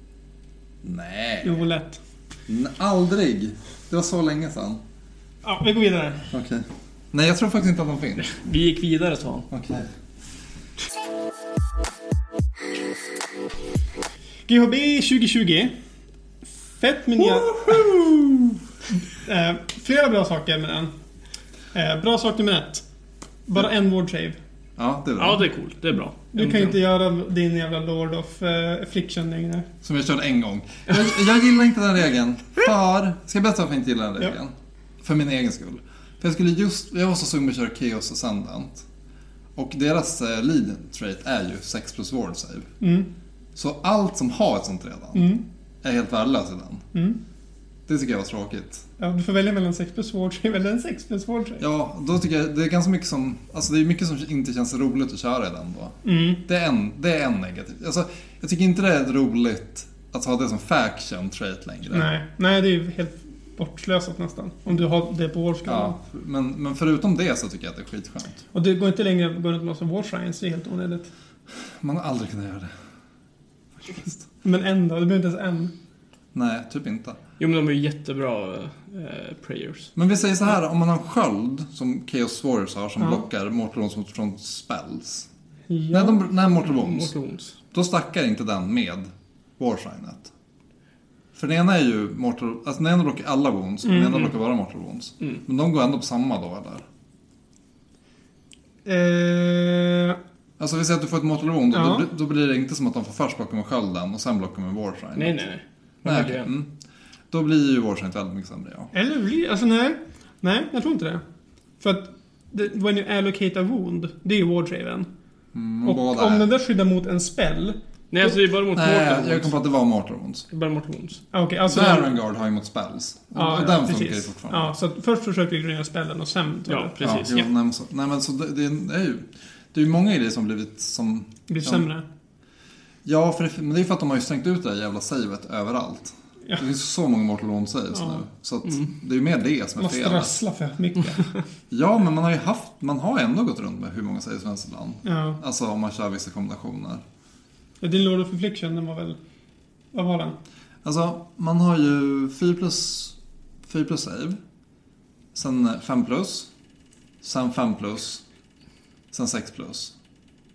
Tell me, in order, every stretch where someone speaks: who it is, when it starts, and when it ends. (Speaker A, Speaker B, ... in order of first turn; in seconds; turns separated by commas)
Speaker A: 0.8-1.6, Speaker B: 1.4-2.0, Speaker A: 2.5-4.8, Speaker B: 5.4-6.3, Speaker A: 6.3-8.3, Speaker C: 8.2-9.5, Speaker A: 9.5-9.9, Speaker B: 14.5-15.8, Speaker B: 16.8-17.9, Speaker A: 17.2-18.4, Speaker B: 19.1-20.9, Speaker B: 21.7-22.9, Speaker B: 23.5-24.4, Speaker A: 24.8-25.5, Speaker C: 25.2-26.8, Speaker B: 26.3-29.7, Speaker A: 29.8-38.9, Speaker A: 39.6-42.7, Speaker B: 42.8-43.1, Speaker A: 43.5-45.3, Speaker B: 45.1-45.4, Speaker A: 45.8-46.8, Speaker B: 46.9-47.2, Speaker A: 47.9-48.9, Speaker B: 49.0-51.6, Speaker A: 51.6-62.1, Speaker B: 56.0-56.4, Speaker B: 61.9-66.0, Speaker A: 65.7-68.4, Speaker B: 68.5-71.1, Speaker A: 71.8-72.7, Speaker A: 73.8-74.2, Speaker B: 74.4-75.7, Speaker A: 76.3-77.2, Speaker C: 77.4-79.9, Speaker A: 80.0-85.3, Speaker B: 85.7-86.3, Speaker A: 85.9-87.1, Speaker C: 86.6-87.6, Speaker A: 87.7-90.3, Speaker A: 91.3-96.8, Speaker B: 93.9-94.1, Speaker B: 98.8-100.2, Speaker A: 100.6-105.4, Speaker B: 101.7-102.1, Speaker C: 105.2-106.5, Speaker A: 106.0-106.7, Speaker A: 107.3-108.9, Speaker B: 108.9-111.2, Speaker B: 111.8-115.1, Speaker A: 115.5-116.5, Speaker B: 115.8-118.4, Speaker C: 118.1-119.5, Speaker A: 118.7-120.5, Speaker C: 120.5-121.2, Speaker B: 121.3-122.2, Speaker A: 121.7-124.7, Speaker B: 123.3-127.1, Speaker C: 126.7-127.5, Speaker A: 127.0-131.9, Speaker B: 131.5-132.1, Speaker A: 133.1-140.3, Speaker B: 139.8-141.3, Speaker A: 141.7-147.0, Speaker B: 145.0-145.4, Speaker B: 147.8-149.2, Speaker B: 149.9-150.4, Speaker A: 150.8-154.4, Speaker A: 155.3-156.5, Speaker A: 157.2-158.2, Speaker A: 159.1-159.9